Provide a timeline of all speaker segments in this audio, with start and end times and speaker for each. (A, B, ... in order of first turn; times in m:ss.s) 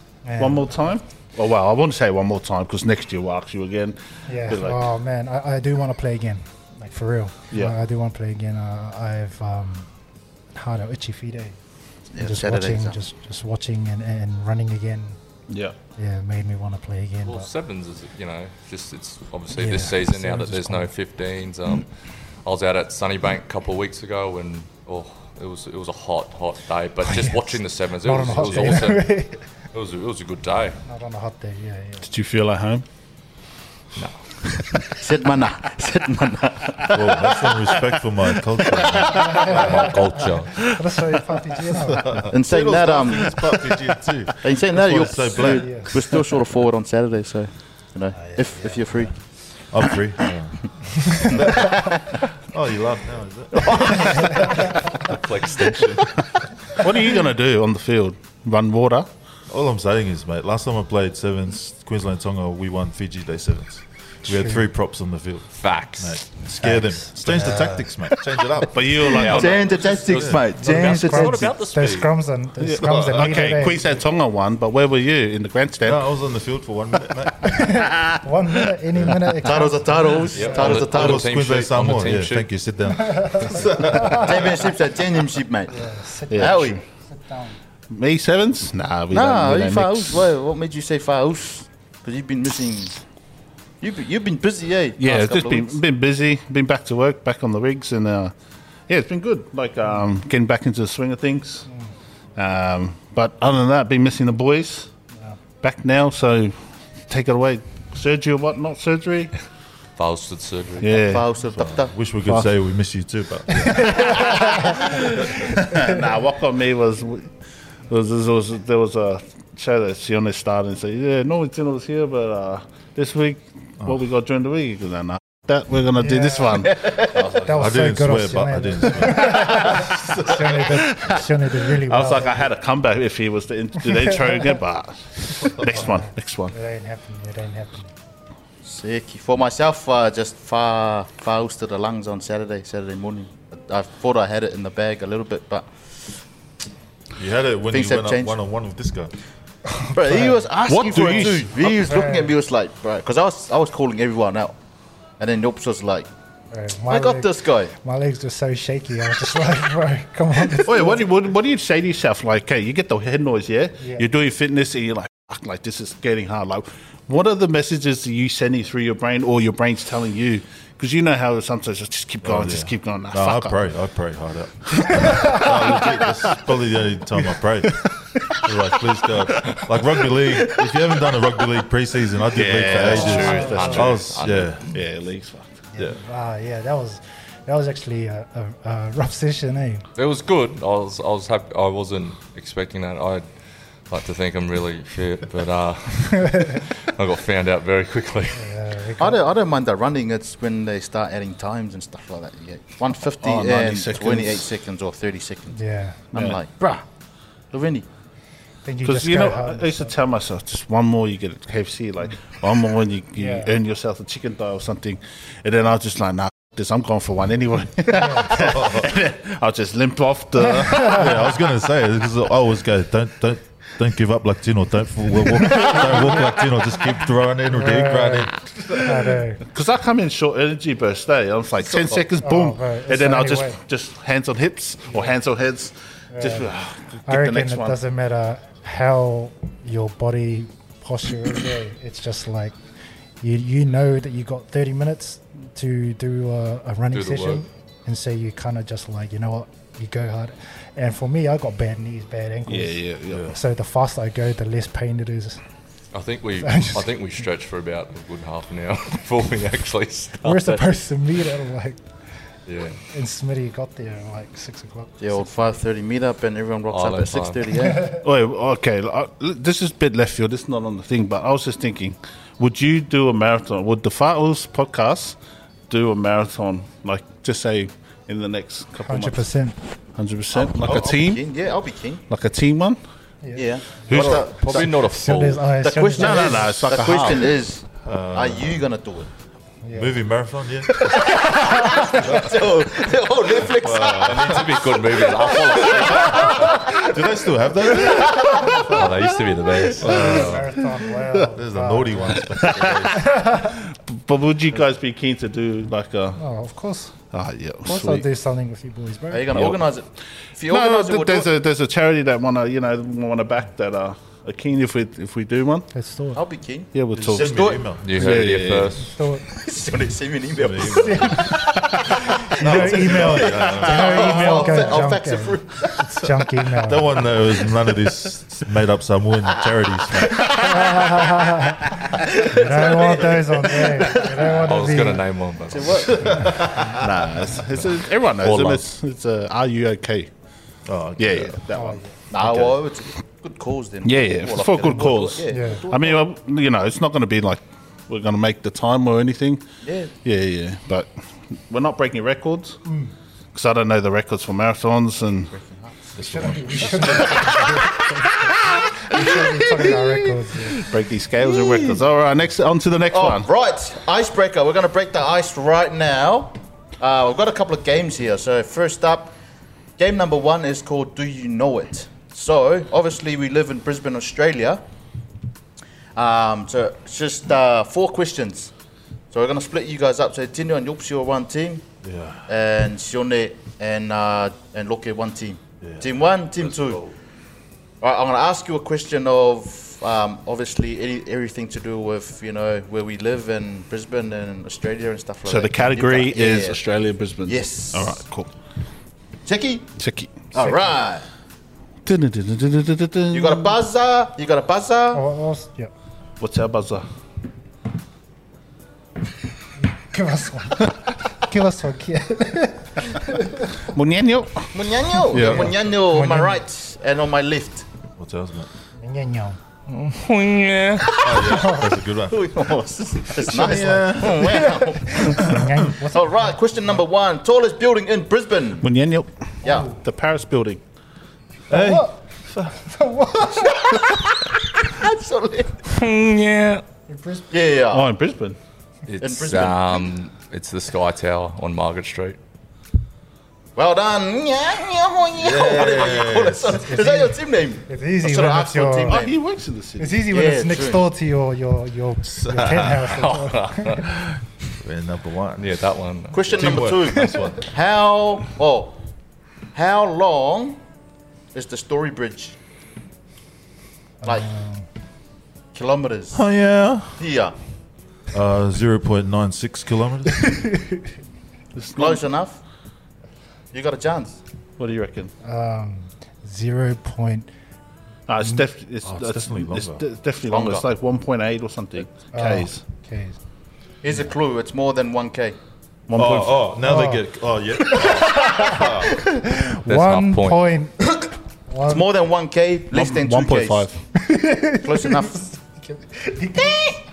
0:00.2-0:00.9 A
0:00.4-0:04.8 B
0:04.3-0:09.9 A
0:10.5-0:11.6 A
0:12.1-0:13.0 C
0:12.2-0:15.2 A
0:15.5-0:15.8 B
0:16.0-0:17.5 A
0:17.2-0:21.9 D
0:19.6-0:20.9 A
0:22.4-0:29.2 D
0:27.1-0:27.4 A
0:28.0-0:29.4 A
0:28.4-0:28.8 E
0:29.7-0:30.8 D
0:30.9-0:32.1 A
0:32.0-0:32.8 B
0:34.8-0:37.5 C
0:36.9-0:39.9 E
0:39.0-0:42.3 A
0:39.4-0:40.6 D
0:41.9-0:46.2 E
0:42.3-0:43.4 C
0:44.4-0:49.1 C
0:45.4-0:46.0 A
0:49.7-0:51.8 E
0:51.2-0:52.3 C
0:52.4-0:54.8 E
0:53.6-0:53.9 C
0:54.1-0:54.5 A
0:54.9-0:56.2 D
0:56.8-0:59.1 B
0:59.5-1:09.2 E
1:04.3-1:04.7 A
1:05.6-1:06.3 D
1:06.6-1:07.8 A
1:08.7-1:09.6 B
1:09.0-1:12.1 D
1:09.2-1:11.6 C
1:10.1-1:10.4 E
1:10.6-1:13.9 A
1:12.6-1:16.0 B
1:12.8-1:13.3 E
1:15.8-1:17.7 E
1:17.4-1:20.6 A
1:17.7-1:19.1 B
1:19.4-1:21.3 C
1:20.3-1:22.5 D
1:20.6-1:24.5 E
1:22.9-1:24.3 A
1:23.9-1:25.8 C
1:25.7-1:27.6 A
1:26.3-1:26.8 B
1:26.4-1:26.8 C
1:27.9-1:30.3 B
1:29.1-1:33.0 C
1:33.8-1:35.8 C
1:35.0-1:38.3 B
1:38.9-1:41.7 B
1:42.4-1:44.9 B
1:45.6-1:46.6 B
1:47.1-1:49.3 B
1:50.0-1:51.0 D
1:50.8-1:51.3 B
1:51.0-1:52.0 C
1:51.6-1:54.4 E
1:53.7-1:54.8 A
1:54.5-1:55.0 B
1:55.6-1:57.3 B
1:57.9-2:07.0 B
2:06.0-2:06.7 A
2:06.8-2:07.3 C
2:07.3-2:12.5 A
2:07.5-2:09.6 E
2:10.6-2:16.6 B
2:15.7-2:17.9 A
2:18.6-2:25.7 C
2:27.2-2:29.1 E
2:27.7-2:28.4 C
2:29.8-2:31.2 A
2:29.9-2:34.6 C
2:30.7-2:31.4 B
2:31.8-2:32.4 A
2:35.2-2:36.1 C
2:36.5-2:41.1 A
2:36.9-2:37.7 C
2:40.6-2:53.6 B
2:52.2-3:04.8 E
2:54.8-2:56.3 B
2:55.1-2:55.4 A
2:57.7-2:58.5 B
2:59.2-2:59.6 B
3:02.3-3:04.0 B
3:02.9-3:03.9 A
3:02.9-3:04.6 D
3:04.6-3:05.6 B
3:05.7-3:09.9 A
3:10.0-3:13.2 D
3:13.9-3:18.4 D
3:16.2-3:16.6 A
3:18.4-3:19.3 A
3:19.0-3:25.6 C
3:23.2-3:24.5 B
3:25.5-3:26.0 A
3:26.1-3:26.9 C
3:26.1-3:26.4 B
3:27.5-3:27.8 C
3:28.6-3:29.9 A
3:28.8-3:41.1 B
3:33.2-3:33.5 A
3:37.9-3:38.5 A
3:40.6-3:41.1 A
3:40.9-3:49.0 E
3:47.5-3:49.4 A
3:49.5-3:57.8 B
3:51.7-3:52.0 C
3:52.2-3:53.6 A
3:56.1-3:56.5 A
3:57.1-4:02.6 A
4:03.2-4:15.4 A
4:06.9-4:07.4 D
4:12.5-4:13.3 B
4:13.1-4:13.4 E
4:15.9-4:20.7 D
4:16.4-4:16.9 A
4:20.2-4:21.9 A
4:22.5-4:22.8 D
4:22.9-4:25.1 A
4:25.0-4:27.9 C
4:26.7-4:27.6 D
4:27.9-4:35.2 B
4:35.7-4:39.3 B
4:38.8-4:39.6 A
4:40.0-4:41.3 B
4:40.3-4:42.0 C
4:42.1-4:42.8 B
4:43.4-4:44.7 C
4:43.9-4:44.3 B
4:43.9-4:45.4 D
4:44.0-4:44.3 E
4:44.6-4:46.8 A
4:45.6-4:49.1 C
4:46.0-4:47.3 B
4:47.8-4:48.6 E
4:49.6-4:50.0 A
4:49.7-4:51.2 E
4:50.8-4:56.9 C
4:51.5-4:51.9 A
4:51.9-4:52.3 E
4:53.5-4:54.6 E
4:54.0-4:56.5 D
4:55.8-4:58.9 E
4:57.7-4:58.9 C
4:58.6-5:00.4 D
4:59.8-5:00.5 E
4:59.8-5:02.2 A
5:01.2-5:03.2 E
5:02.4-5:06.2 B
5:02.9-5:03.6 A
5:06.2-5:06.9 A
5:07.1-5:08.1 B
5:07.6-5:09.5 A
5:09.1-5:11.3 C
5:09.3-5:09.6 B
5:10.5-5:15.7 B
5:15.7-5:16.2 A
5:16.2-5:17.8 C
5:16.7-5:18.8 B
5:17.0-5:17.9 E
5:17.8-5:18.9 D
5:18.8-5:19.3 A
5:19.3-5:26.1 C
5:20.3-5:21.4 E
5:20.6-5:21.4 A
5:22.3-5:27.0 A
5:22.4-5:24.4 E
5:26.6-5:30.6 E
5:30.1-5:30.9 C
5:30.3-5:35.1 A
5:31.9-5:34.5 C
5:34.3-5:36.2 D
5:35.5-5:36.6 C
5:35.9-5:36.8 E
5:36.0-5:36.6 A
5:36.7-5:40.1 B
5:38.2-5:38.6 D
5:40.7-5:41.4 E
5:41.0-5:42.6 B
5:41.5-5:41.8 A
5:42.1-5:46.1 C
5:43.8-5:49.4 B
5:45.3-5:45.7 A
5:49.6-5:49.9 C
5:50.0-5:52.6 B
5:52.7-5:52.9 A
5:53.3-5:55.3 B
5:55.3-5:55.8 C
5:56.0-5:57.4 E
5:56.0-6:00.6 A
6:00.6-6:03.3 B
6:01.2-6:01.8 C
6:02.9-6:09.2 C
6:09.8-6:14.6 C
6:16.0-6:18.5 C
6:19.1-6:21.7 C
6:21.8-6:22.3 E
6:22.3-6:26.8 C
6:25.6-6:25.9 E
6:26.4-6:26.9 D
6:27.8-6:36.6 C
6:35.3-6:38.3 B
6:37.2-6:38.0 C
6:39.3-6:39.8 C
6:39.8-6:40.3 B
6:40.3-6:41.0 C
6:40.4-6:40.7 A
6:41.8-6:43.5 B
6:43.1-6:45.0 C
6:44.9-6:45.7 A
6:46.2-6:46.8 B
6:49.6-6:53.6 A
6:53.7-6:54.5 B
6:54.5-6:57.7 C
6:55.1-6:55.6 B
6:55.1-6:56.4 A
6:58.0-6:58.5 E
6:58.8-6:59.4 A
6:59.7-7:01.0 D
7:00.8-7:08.7 C
7:01.0-7:02.2 E
7:01.3-7:01.6 A
7:03.2-7:04.4 E
7:04.2-7:06.4 A
7:08.6-7:10.6 B
7:09.4-7:09.7 C
7:09.4-7:09.8 A
7:11.5-7:12.0 A
7:11.5-7:12.6 E
7:12.5-7:13.8 A
7:13.3-7:15.7 C
7:15.7-7:16.6 D
7:16.9-7:17.4 A
7:17.3-7:17.9 C
7:17.7-7:18.4 B
7:18.9-7:22.2 D
7:19.0-7:19.9 C
7:23.6-7:29.2 C
7:25.2-7:26.7 E
7:26.6-7:29.1 A
7:28.9-7:30.1 B
7:29.8-7:33.8 A
7:30.1-7:30.8 C
7:32.1-7:33.0 E
7:32.9-7:33.9 D
7:34.6-7:35.6 E
7:35.4-7:36.7 D
7:36.1-7:38.8 C
7:36.3-7:37.4 E
7:39.5-7:40.6 C
7:41.3-7:42.4 C
7:44.0-7:44.7 A
7:45.5-7:46.2 C
7:46.1-7:47.0 E
7:47.0-7:47.4 C
7:48.1-7:50.3 E
7:50.3-7:50.6 A
7:51.6-7:52.1 B
7:51.8-7:52.4 C
7:53.5-7:54.2 C
7:54.6-7:55.1 B
7:55.2-7:57.3 A
7:58.1-8:02.6 B
7:58.8-7:59.8 E
8:00.3-8:00.7 C
8:02.1-8:03.2 A
8:03.8-8:05.4 C
8:05.9-8:06.5 B
8:06.0-8:09.0 E
8:06.6-8:11.9 A
8:09.7-8:10.5 D
8:11.7-8:13.7 C
8:12.7-8:13.8 B
8:14.0-8:16.8 A
8:14.6-8:15.3 C